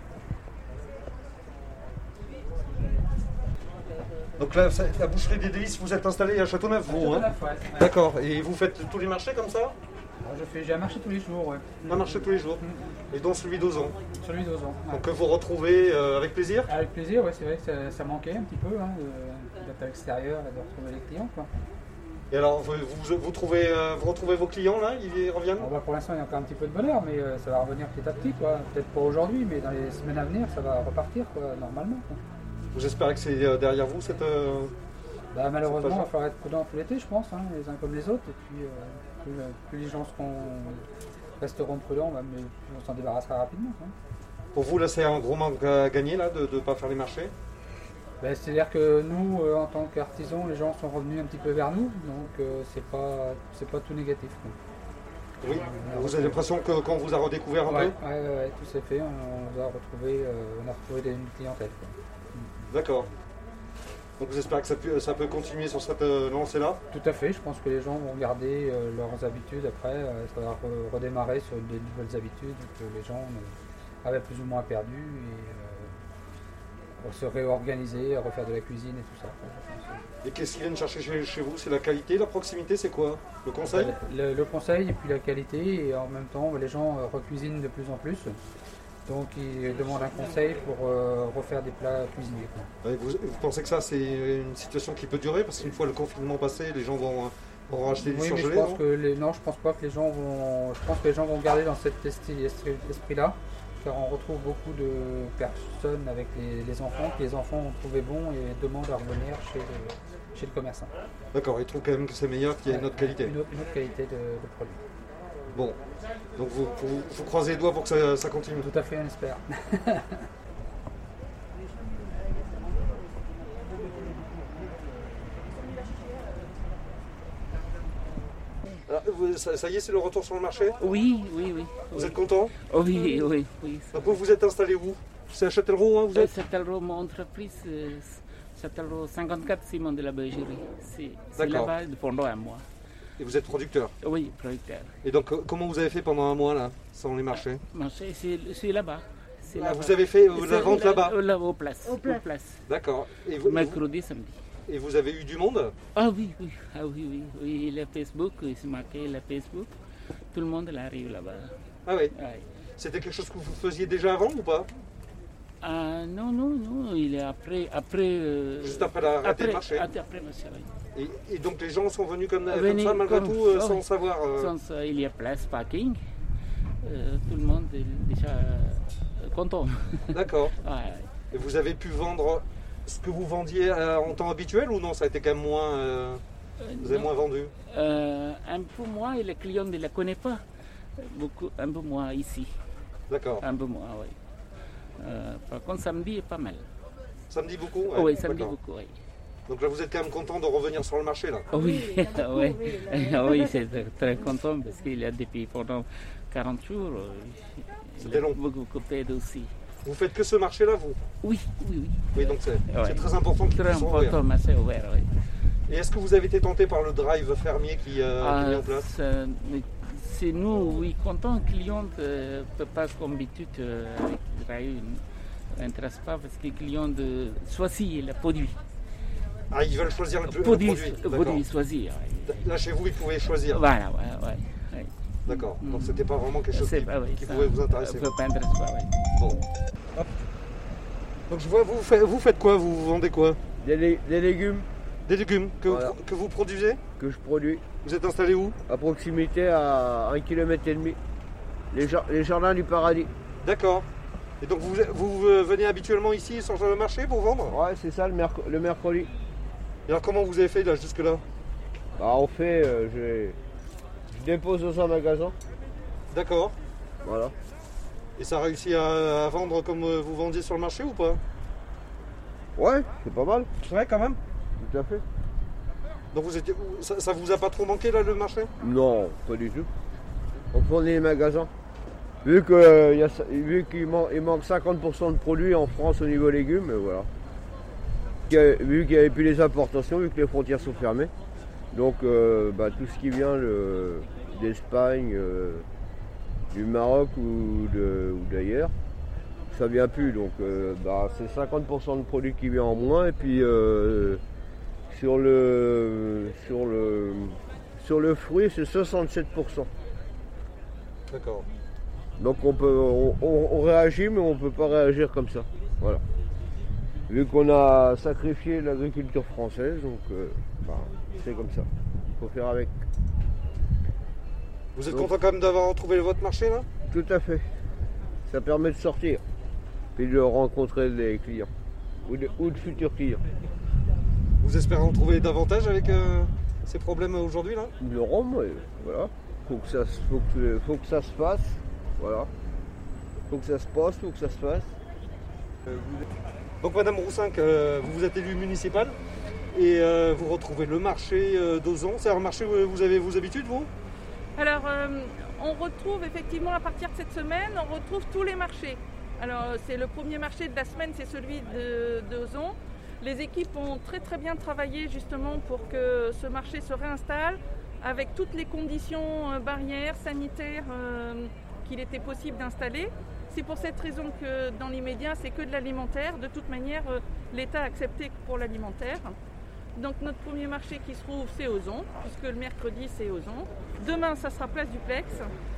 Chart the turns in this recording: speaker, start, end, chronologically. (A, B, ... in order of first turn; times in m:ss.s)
0:04.4-0:09.8 A
0:06.9-0:07.9 B
0:10.2-0:13.0 B
0:11.9-0:14.0 A
0:14.2-0:15.1 B
0:14.9-0:16.7 A
0:16.7-0:21.5 B
0:22.3-0:25.7 A
0:25.6-0:32.2 B
0:32.7-0:34.7 A
0:35.3-0:40.8 B
0:35.6-0:36.1 A
0:41.4-0:43.9 B
0:44.5-0:47.3 A
0:48.2-0:54.6 B
0:55.4-0:58.0 A
0:55.4-0:56.4 B
0:57.6-1:02.7 B
1:02.7-1:03.1 A
1:04.2-1:06.8 A
1:06.9-1:16.0 B
1:17.0-1:20.0 B
1:20.2-1:23.9 A
1:23.6-1:28.4 B
1:29.0-1:32.7 B
1:32.8-1:38.8 A
1:37.9-1:50.9 B
1:51.3-1:53.4 A
1:52.6-1:54.8 B
1:55.5-1:55.8 A
1:56.4-1:58.7 A
1:58.6-2:00.3 B
2:08.9-2:10.8 A
2:10.8-2:14.2 C
2:11.9-2:12.5 A
2:13.9-2:16.3 A
2:16.1-2:22.6 C
2:21.4-2:21.7 A
2:23.2-2:23.9 A
2:24.0-2:24.9 C
2:25.0-2:27.6 A
2:27.7-2:32.6 C
2:29.5-2:31.1 A
2:32.7-2:33.8 A
2:33.4-2:34.4 C
2:34.7-2:35.7 A
2:35.9-2:39.7 C
2:40.3-2:41.5 C
2:41.9-2:42.1 A
2:42.1-2:42.4 C
2:42.8-2:44.7 A
2:45.6-2:50.7 C
2:48.6-2:49.9 A
2:50.9-2:54.5 A
2:52.5-2:56.0 C
2:56.8-3:01.1 C
3:00.1-3:00.5 A
3:01.3-3:06.2 A
3:06.6-3:07.1 C
3:06.8-3:07.5 A
3:07.7-3:10.4 C
3:11.0-3:12.5 C
3:13.1-3:13.4 A
3:13.4-3:14.1 C
3:15.0-3:16.6 C
3:17.3-3:18.6 A
3:17.9-3:18.9 C
3:19.5-3:21.5 A
3:21.5-3:29.5 C
3:28.0-3:28.4 A
3:29.8-3:31.0 A
3:31.2-3:32.0 C
3:32.1-3:34.2 A
3:32.7-3:35.1 C
3:35.7-3:38.9 A
3:38.2-3:45.0 C
3:45.5-3:48.6 C
3:49.5-3:51.4 A
3:50.2-3:52.4 C
3:52.2-3:53.6 A
3:53.4-3:58.9 C
3:55.2-3:58.1 A
3:59.2-3:59.4 A
4:01.3-4:03.4 A
4:03.6-4:04.7 D
4:05.1-4:06.8 A
4:05.7-4:05.9 D
4:07.0-4:07.6 D
4:07.8-4:08.6 A
4:08.7-4:11.0 D
4:11.7-4:13.1 D
4:13.4-4:13.9 A
4:14.4-4:17.5 A
4:17.5-4:19.1 D
4:19.9-4:21.2 A
4:22.0-4:23.4 D
4:24.1-4:25.3 D
4:26.1-4:26.5 A
4:27.0-4:27.3 D
4:28.2-4:31.2 A
4:32.6-4:33.5 D
4:33.6-4:34.2 A
4:34.6-4:35.0 D
4:36.1-4:38.5 A
4:38.6-4:39.7 D
4:40.5-4:41.5 D
4:42.2-4:47.1 D
4:48.3-4:51.1 D
4:51.7-4:55.6 D
4:56.5-4:58.7 D
4:59.5-5:04.2 D
5:04.9-5:09.7 D
5:11.1-5:11.5 A
5:12.2-5:16.0 D
5:17.1-5:21.6 D
5:22.2-5:22.8 D
5:24.8-5:26.7 A
5:26.9-5:27.4 D
5:28.3-5:29.2 D
5:30.0-5:31.5 D
5:32.0-5:33.2 D
5:34.4-5:37.7 A
5:37.8-5:42.3 D
5:43.3-5:44.7 D
5:45.7-5:46.0 D
5:46.6-5:49.0 A
5:49.5-5:53.7 A
5:54.4-6:19.1 E
6:19.8-6:25.3 E